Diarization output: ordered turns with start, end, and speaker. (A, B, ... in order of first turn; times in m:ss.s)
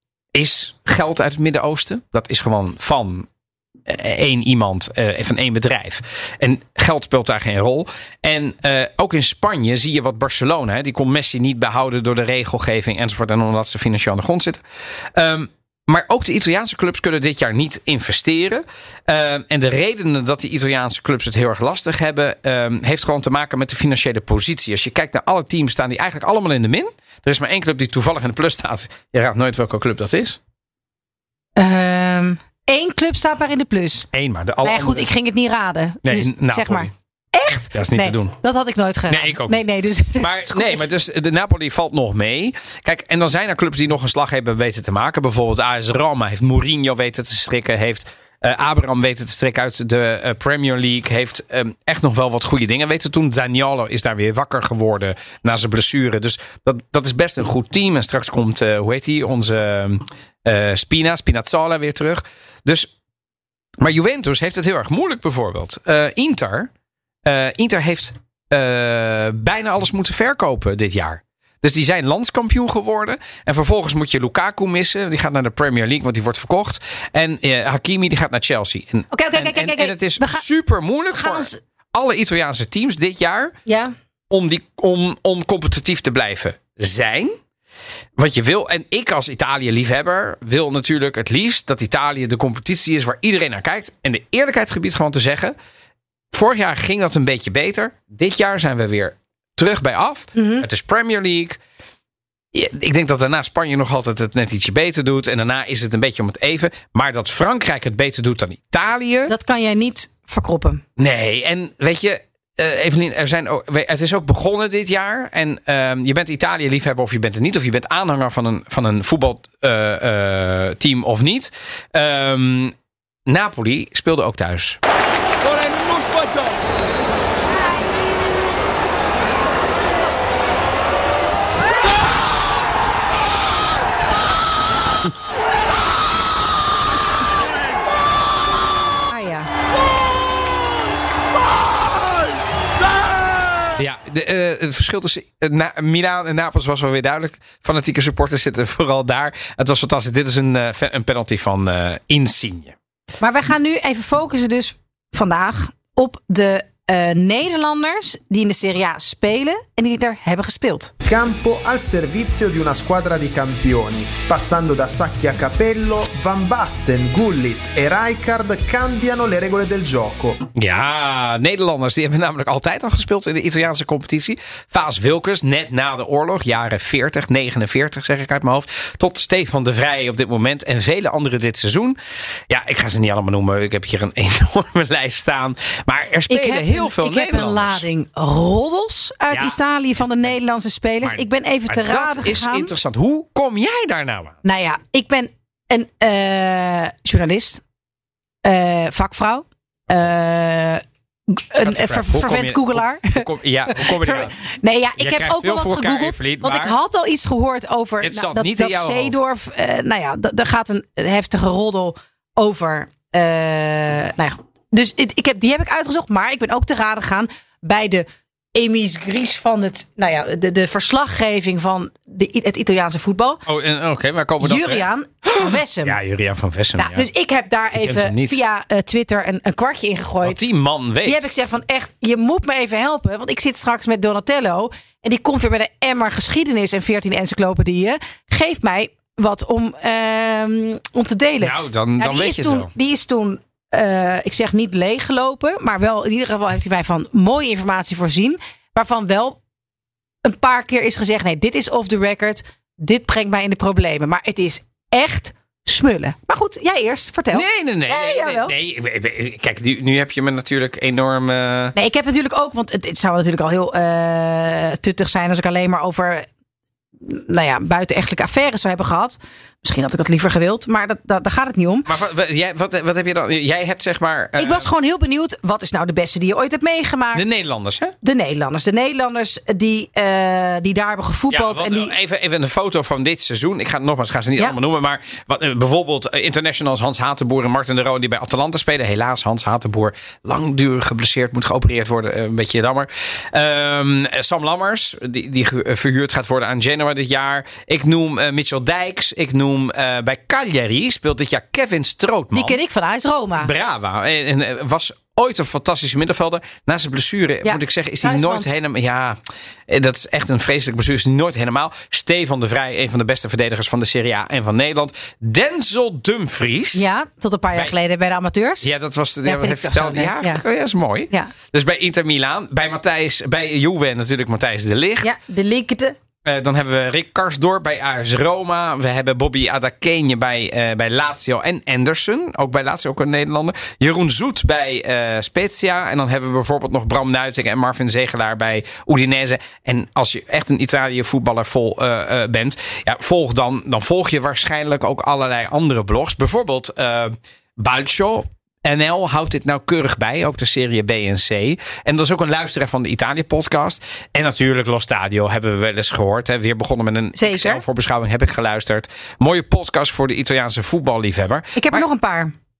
0:00.3-0:03.3 A
0:03.9-0:14.6 A
0:15.1-0:30.4 A
0:31.6-0:34.1 B
0:34.1-0:35.1 A
0:34.6-0:40.8 B
0:36.0-0:36.9 A
0:37.7-0:38.4 A
0:39.1-0:39.6 A
0:40.2-1:02.9 A
1:03.8-1:06.7 A
1:07.2-1:23.6 A
1:19.1-1:20.4 B
1:21.1-1:21.6 B
1:23.6-1:23.9 B
1:24.3-1:27.4 A
1:28.2-1:35.5 A
1:36.3-1:41.6 A
1:40.3-1:40.6 B
1:42.5-1:49.3 A
1:49.3-1:50.8 B
1:51.0-2:02.7 A
2:03.2-2:04.8 A
2:19.1-2:19.5 B
2:23.7-2:32.7 A
2:33.2-2:40.9 B
2:41.0-2:50.4 C
2:50.5-3:02.0 A
3:02.5-3:07.8 A
3:06.3-3:12.7 B
3:09.3-3:09.6 A
3:11.0-3:14.4 A
3:14.4-3:17.6 B
3:18.4-3:43.4 B
3:21.6-3:24.3 A
3:25.0-3:26.8 A
3:28.0-3:29.2 A
3:43.4-3:47.1 A
3:44.4-3:46.0 B
3:46.8-3:50.4 B
3:47.7-3:48.4 A
3:50.2-3:51.3 A
3:51.0-4:09.4 B
4:01.4-4:02.7 A
4:10.2-4:18.5 B
4:17.3-4:21.7 A
4:21.7-4:26.2 B
4:27.0-4:31.9 B
4:31.8-4:34.7 A
4:34.4-4:37.3 B
4:37.1-4:37.9 A
4:38.0-4:41.9 B
4:41.3-5:02.6 A
5:02.3-5:03.5 B
5:03.4-5:16.8 A
5:07.4-5:08.6 B
5:16.7-5:18.7 B
5:18.6-5:25.1 A
5:19.2-5:20.4 B
5:25.0-5:26.0 B
5:26.2-6:01.8 A
5:57.2-5:57.6 B
6:01.6-6:02.3 B